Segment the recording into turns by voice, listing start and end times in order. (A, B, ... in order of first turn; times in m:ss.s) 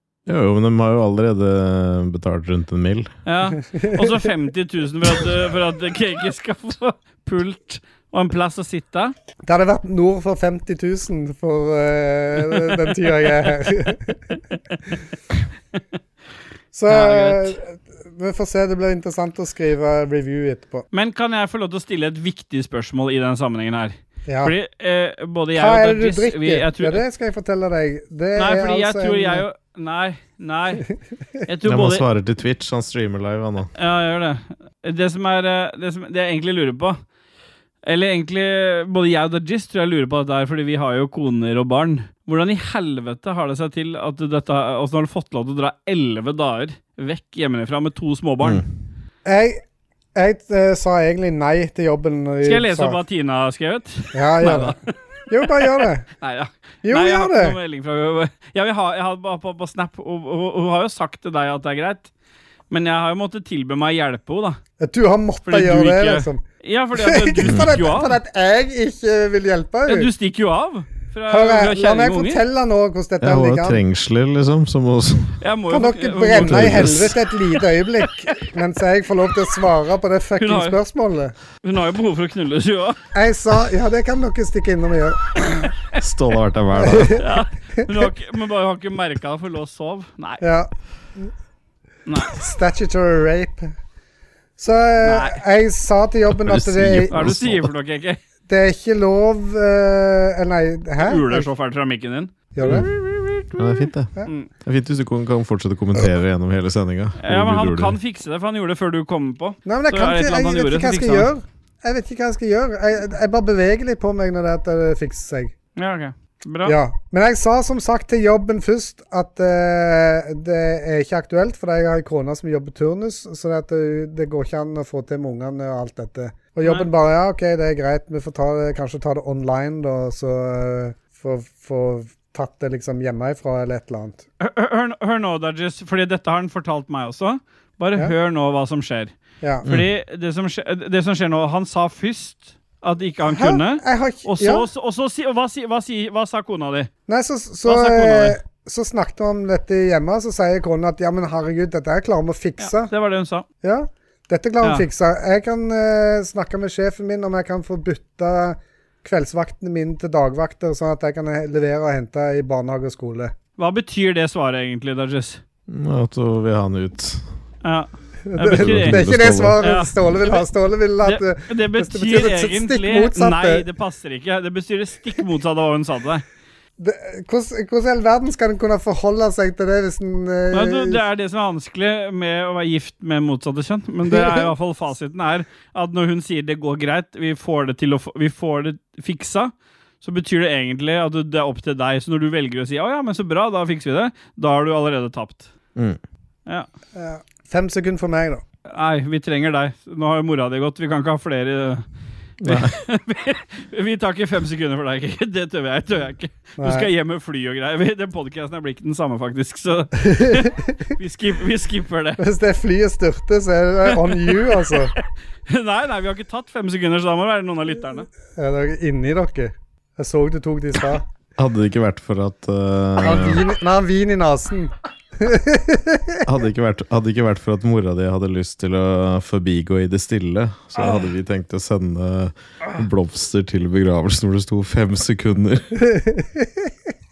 0:00.3-0:03.1 A
0:03.3-0:09.1 B
0:03.7-0:04.2 C
0:09.4-0:14.4 C
0:16.7-0:20.9 C
0:16.9-0:17.6 B
0:20.9-0:27.0 B
0:24.3-0:24.5 C
0:25.6-0:29.4 C
0:28.4-0:30.8 B
0:31.5-0:32.0 B
0:31.6-0:33.7 A
0:33.8-0:37.0 B
0:37.8-0:48.6 B
0:49.3-0:49.6 C
0:50.1-0:53.0 C
0:52.4-1:02.1 B
0:54.1-0:54.8 C
0:55.3-0:56.1 C
0:56.8-0:57.6 C
1:02.7-1:04.6 B
1:04.8-1:06.4 C
1:05.5-1:08.2 B
1:07.0-1:10.1 C
1:07.5-1:07.8 A
1:09.9-1:12.4 B
1:11.3-1:13.8 C
1:13.2-1:15.4 A
1:15.4-1:17.2 B
1:15.7-1:21.3 C
1:16.4-1:17.1 A
1:20.4-1:20.8 B
1:21.6-1:23.0 B
1:23.1-1:25.7 C
1:26.0-1:27.2 A
1:26.8-1:27.2 C
1:27.2-1:30.4 B
1:30.4-1:31.3 C
1:32.1-1:32.3 B
1:32.3-1:33.7 C
1:34.6-1:37.2 C
1:35.0-1:35.4 B
1:36.3-1:37.7 A
1:37.1-1:38.2 B
1:38.5-1:41.5 C
1:41.0-1:44.5 B
1:42.6-1:42.9 C
1:43.6-1:48.0 A
1:47.2-1:51.3 B
1:49.6-1:55.5 C
1:55.8-1:56.8 B
1:56.6-2:14.3 C
2:14.4-2:26.9 B
2:19.6-2:19.9 A
2:23.3-2:24.6 C
2:27.1-2:32.9 C
2:27.7-2:28.4 B
2:32.6-2:33.5 B
2:33.6-2:43.3 C
2:43.6-2:45.4 B
2:45.7-2:47.3 A
2:47.6-2:50.4 B
2:48.3-2:53.6 C
2:48.5-2:49.6 A
2:51.0-2:56.2 B
2:56.8-3:01.0 C
3:00.5-3:15.5 B
3:04.1-3:04.5 C
3:17.0-3:18.4 C
3:18.7-3:21.8 B
3:22.4-3:22.8 A
3:22.4-3:32.2 B
3:26.6-3:26.9 C
3:30.0-3:30.8 C
3:32.2-3:34.9 C
3:33.9-3:38.1 B
3:38.4-3:41.0 C
3:41.4-3:43.4 A
3:43.0-3:46.2 C
3:46.2-3:55.8 A
3:50.8-3:51.0 B
3:55.8-3:56.7 C